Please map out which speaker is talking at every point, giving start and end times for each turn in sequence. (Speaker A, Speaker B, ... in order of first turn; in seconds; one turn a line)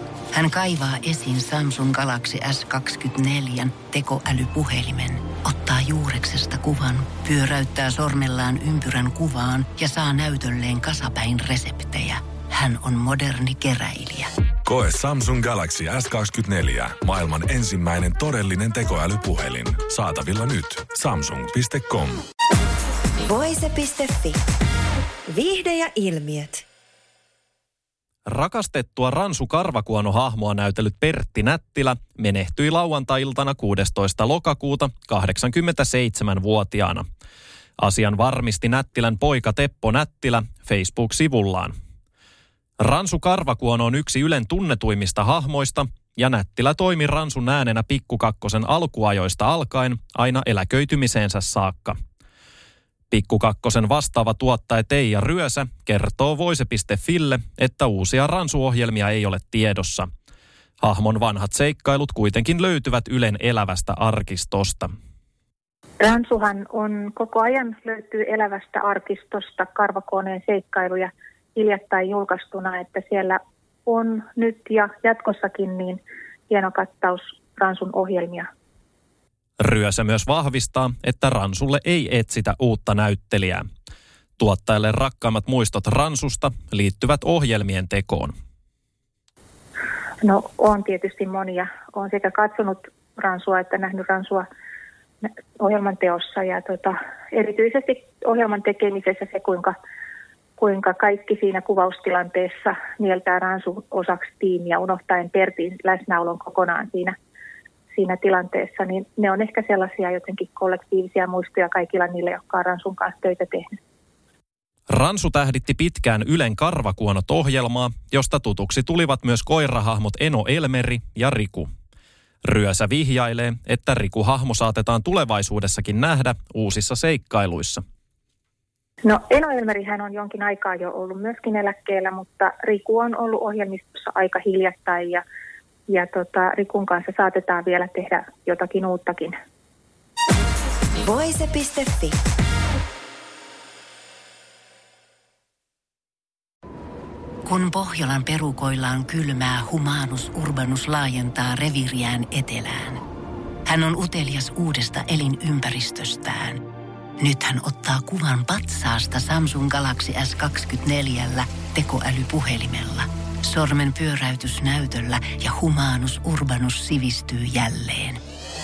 Speaker A: 0.3-14.3
Speaker B: 14.7-22.2
Speaker C: 23.2-24.4
Speaker C: 25.3-26.6
Speaker D: 28.3-37.0
Speaker D: 37.8-41.7
Speaker D: 42.8-52.0
Speaker D: 53.1-60.1
Speaker D: 60.8-64.9
Speaker E: 66.0-78.5
Speaker D: 79.6-83.7
Speaker D: 84.4-88.3
Speaker E: 90.2-94.5
Speaker E: 95.2-99.7
Speaker E: 100.6-107.2
Speaker E: 107.9-113.7
Speaker D: 114.9-121.7
Speaker D: 122.4-127.8
Speaker E: 129.0-135.2
Speaker E: 135.9-139.3
Speaker C: 141.0-142.2
Speaker A: 147.4-153.0
Speaker A: 153.7-156.6
Speaker A: 157.2-168.2